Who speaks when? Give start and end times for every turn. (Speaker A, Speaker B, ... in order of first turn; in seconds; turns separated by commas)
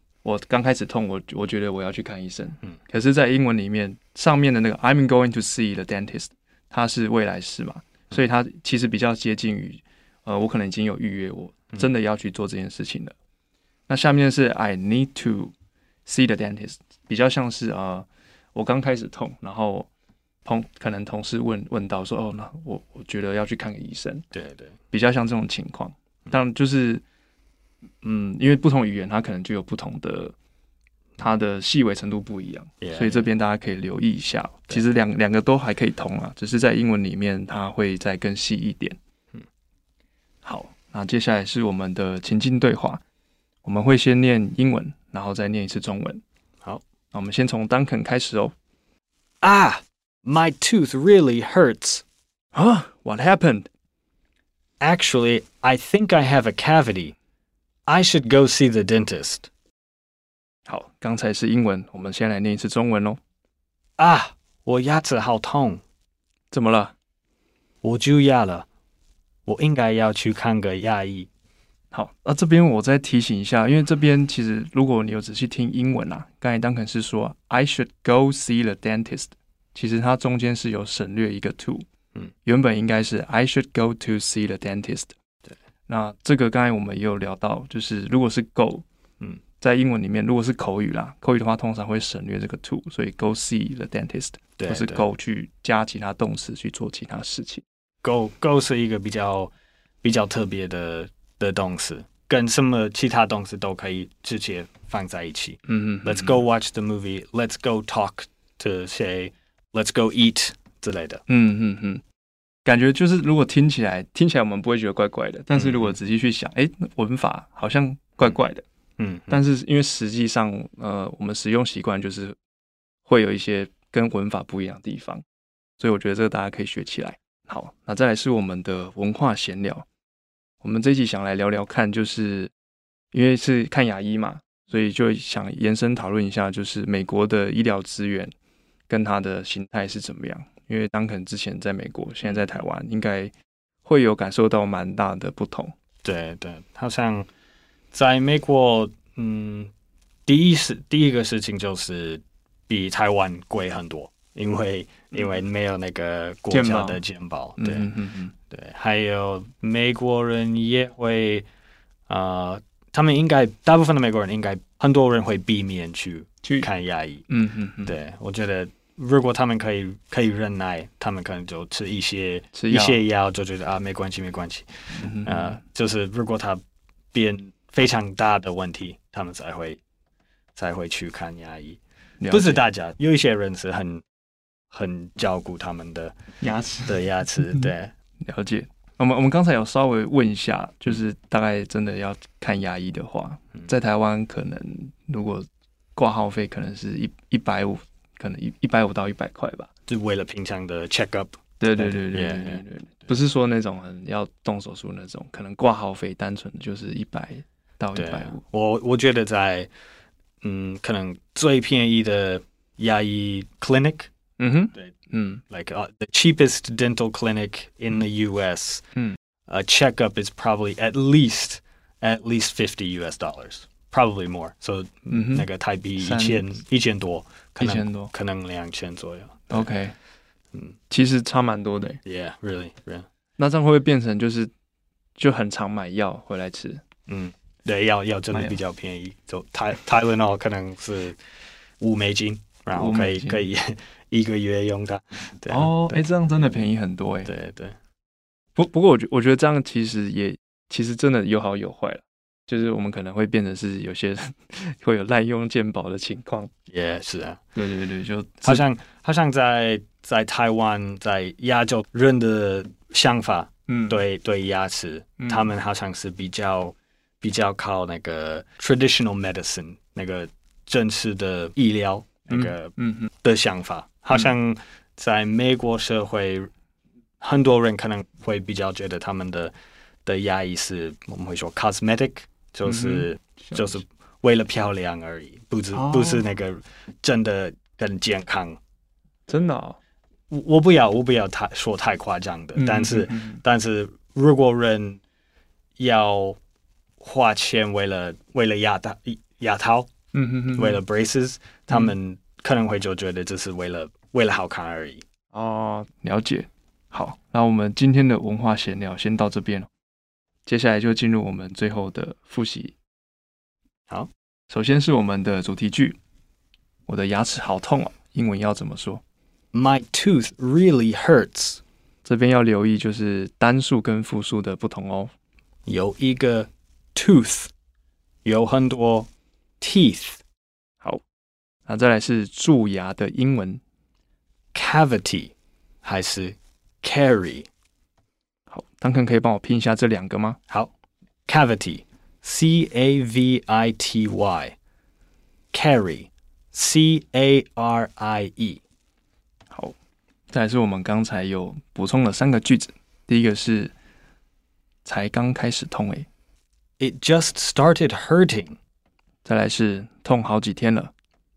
Speaker A: 0.2-13.1, Speaker A: 13.9-15.5, Speaker A: 16.1-19.9, Speaker A: 20.4-24.2, Speaker B: 24.3-24.8, Speaker A: 24.9-27.0, Speaker A: 28.0-30.3, Speaker A: 31.2-39.0, Speaker B: 32.8-33.3, Speaker A: 40.4-43.0, Speaker A: 43.6-46.2, Speaker A: 47.1-48.5, Speaker B: 49.4-52.0, Speaker A: 52.5-53.7, Speaker B: 54.8-57.1, Speaker B: 57.9-59.5, Speaker A: 60.7-63.2, Speaker B: 64.0-65.8, Speaker A: 66.5-66.9, Speaker B: 67.8-68.7, Speaker B: 69.5-71.3, Speaker A: 71.9-81.8, Speaker A: 82.4-85.1, Speaker A: 85.9-88.8, Speaker A: 89.6-97.6, Speaker B: 94.6-95.1, Speaker B: 98.0-99.5, Speaker B: 100.0-111.2, Speaker A: 105.7-106.4, Speaker A: 111.3-112.0, Speaker A: 112.6-118.6, Speaker B: 115.5-116.0, Speaker B: 119.0-119.4, Speaker A: 119.3-122.4, Speaker A: 123.1-125.2, Speaker A: 125.8-129.8, Speaker A: 130.6-132.5, Speaker A: 133.1-138.3, Speaker A: 138.9-143.3, Speaker B: 142.2-142.6, Speaker A: 143.8-145.7, Speaker B: 146.0-147.3, Speaker B: 147.9-149.7, Speaker B: 150.3-157.9, Speaker A: 156.5-157.0, Speaker A: 157.6-158.3, Speaker B: 158.5-161.4, Speaker B: 162.1-167.2, Speaker A: 166.4-166.7, Speaker A: 167.3-167.9, Speaker B: 167.8-176.6, Speaker A: 172.5-173.0, Speaker A: 174.9-175.6, Speaker B: 177.1-179.8, Speaker B: 180.6-181.8, Speaker A: 182.2-182.6, Speaker B: 182.3-184.0, Speaker B: 184.7-186.1, Speaker A: 186.4-187.7, Speaker B: 186.9-187.9, Speaker A: 188.2-199.7, Speaker B: 199.9-202.6, Speaker A: 201.6-208.4, Speaker B: 207.9-209.7, Speaker B: 210.4-214.1, Speaker A: 214.4-215.4, Speaker B: 215.5-218.8, Speaker B: 219.5-229.7, Speaker A: 225.1-225.4, Speaker A: 226.0-226.6, Speaker A: 227.6-228.1, Speaker A: 229.5-229.9, Speaker A: 230.9-232.0, Speaker B: 232.0-233.1, Speaker A: 233.4-234.5, Speaker A: 235.2-236.8, Speaker B: 237.1-241.2, Speaker A: 238.3-238.6, Speaker B: 241.8-246.0, Speaker A: 242.7-243.4, Speaker A: 245.5-247.3, Speaker B: 247.2-247.8, Speaker A: 248.6-256.5, Speaker B: 256.7-257.4, Speaker A: 257.5-258.6, Speaker B: 258.4-276.5, Speaker A: 263.7-264.0, Speaker A: 265.2-265.5, Speaker A: 272.3-273.1, Speaker B: 277.2-279.5, Speaker B: 280.0-288.6, Speaker A: 282.6-283.8, Speaker A: 285.7-286.2, Speaker A: 289.3-289.8, Speaker B: 290.3-295.0, Speaker A: 292.5-293.4, Speaker B: 295.8-296.4, Speaker B: 297.0-299.9, Speaker A: 300.1-300.8, Speaker B: 300.6-305.0, Speaker A: 301.7-301.9, Speaker A: 305.3-309.7, Speaker A: 310.4-312.7, Speaker A: 314.5-316.0, Speaker A: 316.9-319.0, Speaker B: 319.5-321.6, Speaker A: 322.0-325.1, Speaker B: 325.7-327.5, Speaker B: 328.2-329.1, Speaker B: 329.6-330.2, Speaker A: 331.6-333.6, Speaker B: 334.5-337.5, Speaker A: 338.5-340.4, Speaker B: 341.3-344.6, Speaker B: 345.5-348.6, Speaker A: 350.3-353.7, Speaker A: 354.8-356.1, Speaker B: 356.8-358.6, Speaker A: 359.2-360.9